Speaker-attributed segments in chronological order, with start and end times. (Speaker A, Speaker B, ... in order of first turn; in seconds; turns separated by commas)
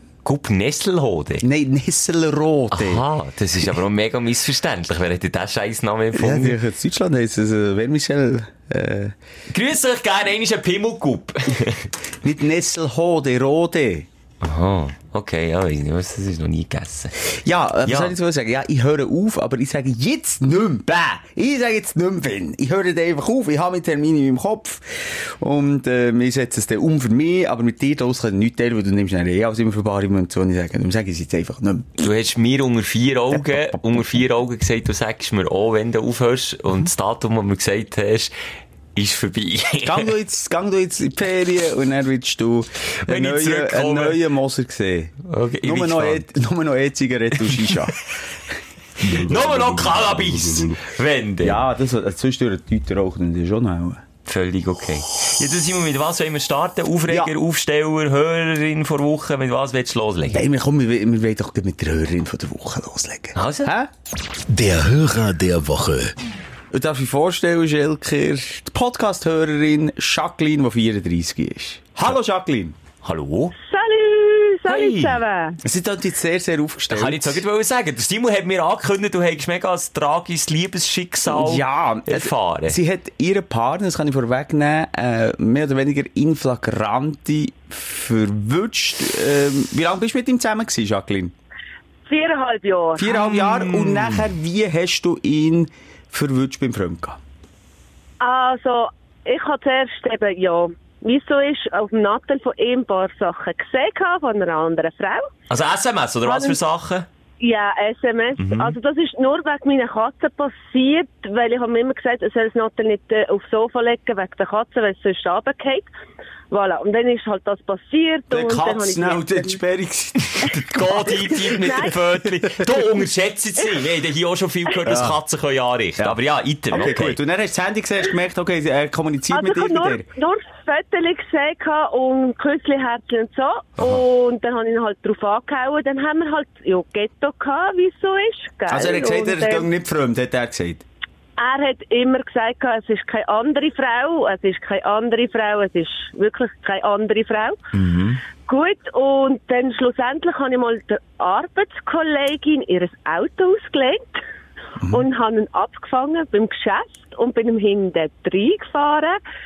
Speaker A: 0.2-1.4, Speaker B: 1.4-3.0, Speaker A: 2.7-6.6, Speaker B: 6.1-9.2, Speaker A: 9.5-11.9, Speaker B: 12.2-14.1, Speaker A: 14.4-17.3, Speaker B: 17.4-31.9, Speaker A: 17.9-18.1, Speaker A: 32.0-38.3, Speaker B: 33.4-33.8, Speaker A: 39.0-40.1, Speaker B: 39.8-48.0, Speaker A: 43.0-44.2, Speaker A: 45.3-46.2, Speaker A: 47.4-47.9, Speaker C: 49.0-50.8, Speaker A: 49.1-51.6, Speaker B: 51.4-54.0, Speaker A: 54.3-60.5, Speaker B: 57.1-57.3, Speaker B: 60.3-63.9, Speaker A: 63.4-63.7, Speaker C: 64.5-66.1, Speaker B: 66.7-72.8, Speaker A: 73.0-73.5, Speaker D: 73.6-75.6, Speaker A: 74.7-75.2, Speaker B: 75.6-77.4, Speaker A: 76.9-82.8, Speaker B: 81.3-91.3, Speaker D: 92.1-93.1, Speaker B: 93.0-97.2, Speaker A: 93.1-94.3, Speaker D: 98.2-105.3, Speaker A: 105.5-107.1, Speaker D: 106.2-106.6, Speaker D: 107.4-115.9, Speaker A: 108.4-108.8, Speaker D: 116.5-119.6, Speaker B: 118.3-121.6, Speaker A: 120.4-127.2, Speaker D: 121.1-122.0, Speaker B: 122.2-122.7, Speaker B: 124.8-125.2, Speaker B: 126.7-130.1, Speaker D: 129.3-139.7, Speaker B: 138.7-140.8, Speaker D: 141.4-147.6, Speaker B: 147.8-148.2, Speaker D: 148.4-154.2, Speaker D: 154.9-159.2